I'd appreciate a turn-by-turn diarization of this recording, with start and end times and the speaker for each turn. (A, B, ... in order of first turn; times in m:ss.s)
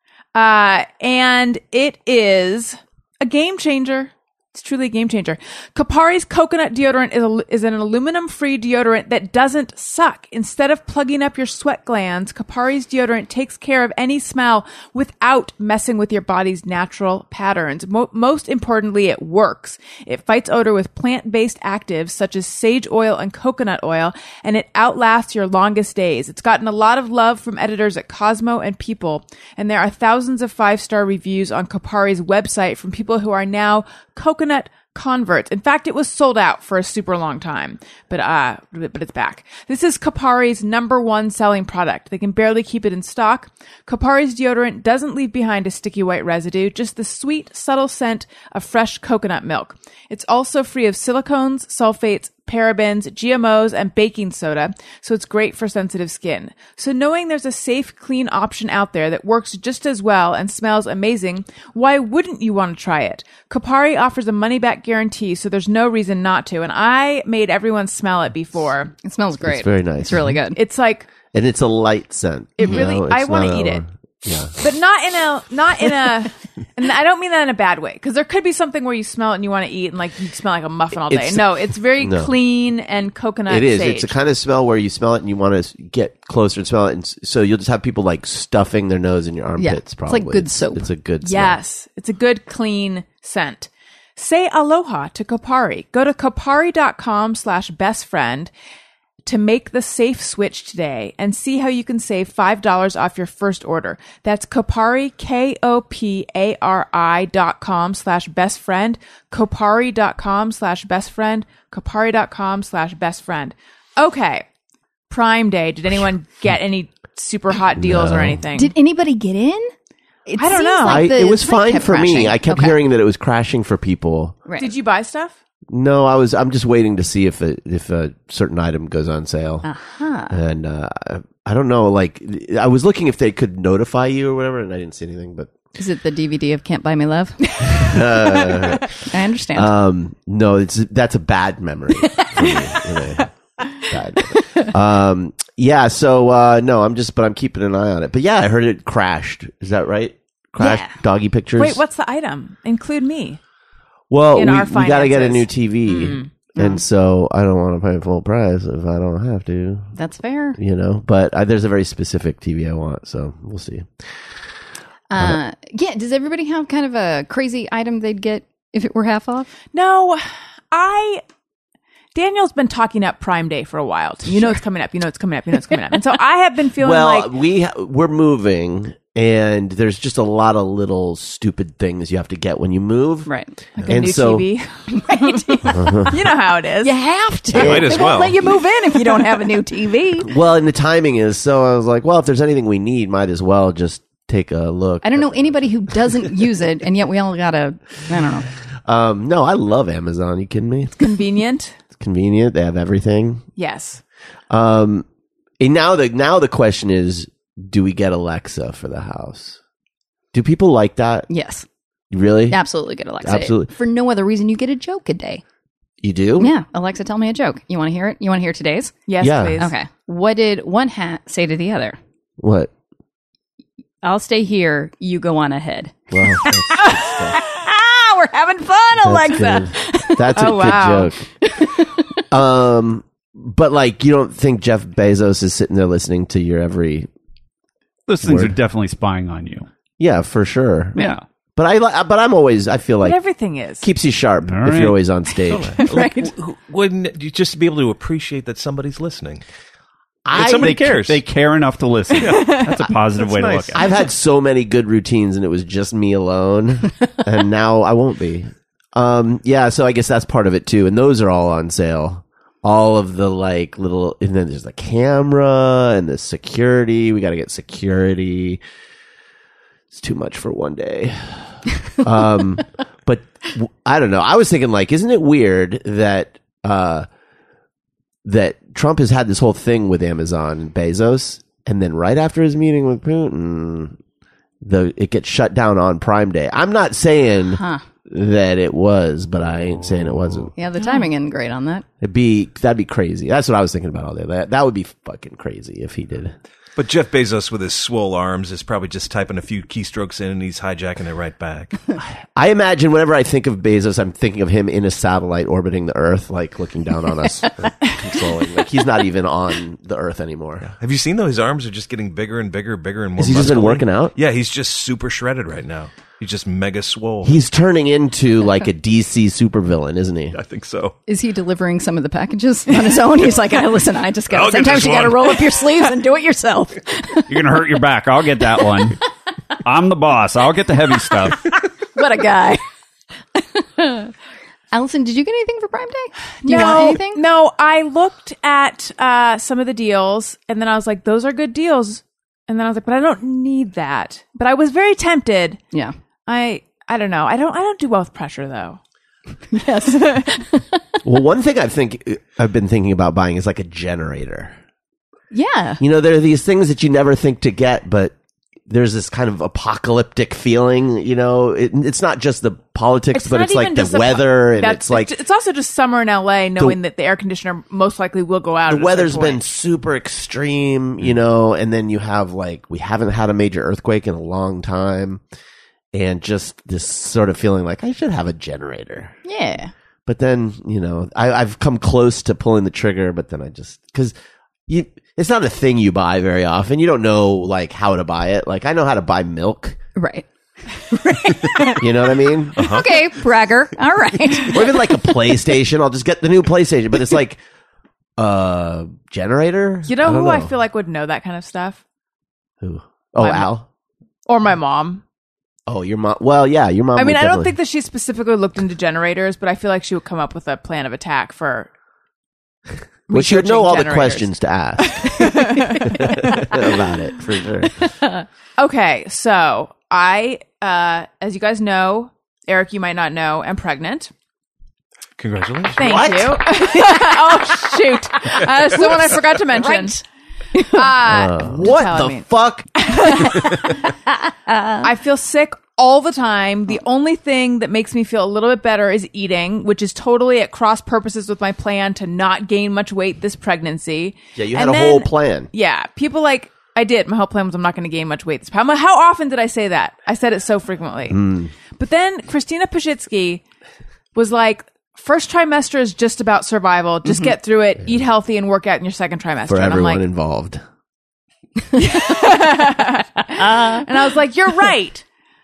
0:00.4-1:08.9 A
1:09.0-1:10.6 B
1:09.4-1:10.4 C
1:10.5-1:11.1 A
1:11.3-1:14.6 C
1:12.6-1:13.8 A
1:14.6-1:24.1 A
1:21.0-1:22.3 C
1:23.5-1:31.6 C
1:29.6-1:30.9 B
1:31.2-1:38.5 A
1:39.2-1:54.5 A
1:55.1-1:58.7 A
1:57.8-1:58.4 C
1:58.6-1:59.7 B
2:00.3-2:02.8 B
2:00.4-2:01.1 A
2:00.8-2:04.4 C
2:04.5-2:04.7 B
2:04.6-2:05.4 A
2:05.7-2:09.7 C
2:09.6-2:10.4 B
2:10.3-2:15.5 C
2:15.8-2:19.7 B
2:17.6-2:18.9 C
2:19.5-2:31.8 C
2:22.1-2:22.8 B
2:30.6-2:31.0 B
2:31.6-2:33.4 A
2:34.1-2:39.9 C
2:34.3-2:36.3 A
2:36.6-2:36.8 B
2:40.0-2:40.6 B
2:40.6-2:44.2 C
2:45.1-2:49.5 B
2:49.7-2:51.2 A
2:52.2-2:57.3 A
2:56.8-3:04.5 C
3:03.3-3:03.5 B
3:03.8-3:06.9 A
3:05.0-3:05.8 B
3:05.7-3:06.2 C
3:06.8-3:10.3 B
3:07.5-3:08.4 D
3:07.5-3:08.0 C
3:08.0-3:10.0 A
3:10.2-3:16.3 C
3:15.0-3:18.5 B
3:18.9-3:21.0 C
3:21.0-3:21.8 A
3:22.0-3:23.4 C
3:23.6-3:24.0 A
3:24.5-3:25.1 C
3:25.6-3:29.6 C
3:30.3-3:31.3 C
3:31.3-3:31.7 B
3:32.1-3:32.6 C
3:32.5-3:35.4 B
3:33.2-3:33.7 C
3:36.0-3:36.5 C
3:36.4-3:39.0 B
3:39.1-3:39.7 A
3:39.2-3:39.6 C
3:39.6-3:42.0 B
3:42.4-3:42.7 C
3:44.0-3:50.8 B
3:46.1-3:47.4 C
3:49.0-3:51.3 C
3:50.4-3:51.1 A
3:51.4-3:52.2 B
3:52.3-3:57.1 C
3:58.1-3:59.7 E
3:58.2-3:58.5 C
4:00.0-4:01.0 C
4:01.0-4:01.2 E
4:01.6-4:03.2 C
4:03.0-4:03.9 A
4:03.8-4:05.8 C
4:04.5-4:05.0 E
4:05.5-4:09.4 D
4:05.8-4:06.3 B
4:10.2-4:10.8 C
4:10.3-4:11.2 D
4:10.4-4:13.9 E
4:12.1-4:13.6 D
4:13.6-4:28.6 C
4:29.9-4:31.4 C
4:32.0-4:37.1 C
4:38.2-4:44.0 C
4:44.6-4:50.5 C
4:47.5-4:47.8 B
4:50.6-4:51.8 B
4:52.0-4:56.4 C
4:56.8-5:01.9 D
5:02.4-5:10.7 C
5:10.6-5:17.4 D
5:13.2-5:14.2 C
5:17.2-5:20.4 C
5:20.3-5:21.0 D
5:21.1-5:27.4 B
5:24.3-5:25.5 D
5:27.3-5:29.0 E
5:29.6-5:31.5 E
5:32.0-5:32.6 B
5:33.4-5:34.1 B
5:34.7-5:37.2 B
5:36.4-5:45.6 A
5:46.3-5:48.8 A
5:49.5-5:50.8 B
5:49.9-5:50.4 A
5:51.0-5:54.6 C
5:55.3-5:55.8 B
5:55.8-5:58.2 C
5:58.7-6:05.2 C
6:03.1-6:09.5 A
6:08.7-6:15.2 C
6:15.9-6:19.1 C
6:19.2-6:19.7 B
6:20.1-6:24.1 C
6:24.7-6:29.8 C
6:30.0-6:31.8 B
6:31.7-6:32.8 C
6:32.6-6:32.9 D
6:32.6-6:35.2 B
6:34.4-6:37.4 C
6:38.2-6:40.5 C
6:39.9-6:41.8 A
6:42.6-6:43.7 C
6:43.2-6:43.5 A
6:44.3-6:45.0 A
6:45.7-6:47.5 C
6:47.0-6:51.7 A
6:53.1-6:54.3 A
6:53.1-6:57.9 C
6:54.8-6:56.6 A
6:58.6-7:04.1 A
7:05.2-7:06.1 D
7:05.8-7:10.0 A
7:05.8-7:06.4 C
7:06.5-7:10.0 B
7:10.6-7:10.8 B
7:10.6-7:13.8 A
7:11.0-7:12.9 C
7:13.5-7:14.9 B
7:14.8-7:33.4 A
7:24.4-7:25.5 C
7:31.1-7:31.5 C
7:34.2-7:40.0 A
7:39.5-7:40.6 C
7:41.7-7:45.0 A
7:43.4-7:43.8 B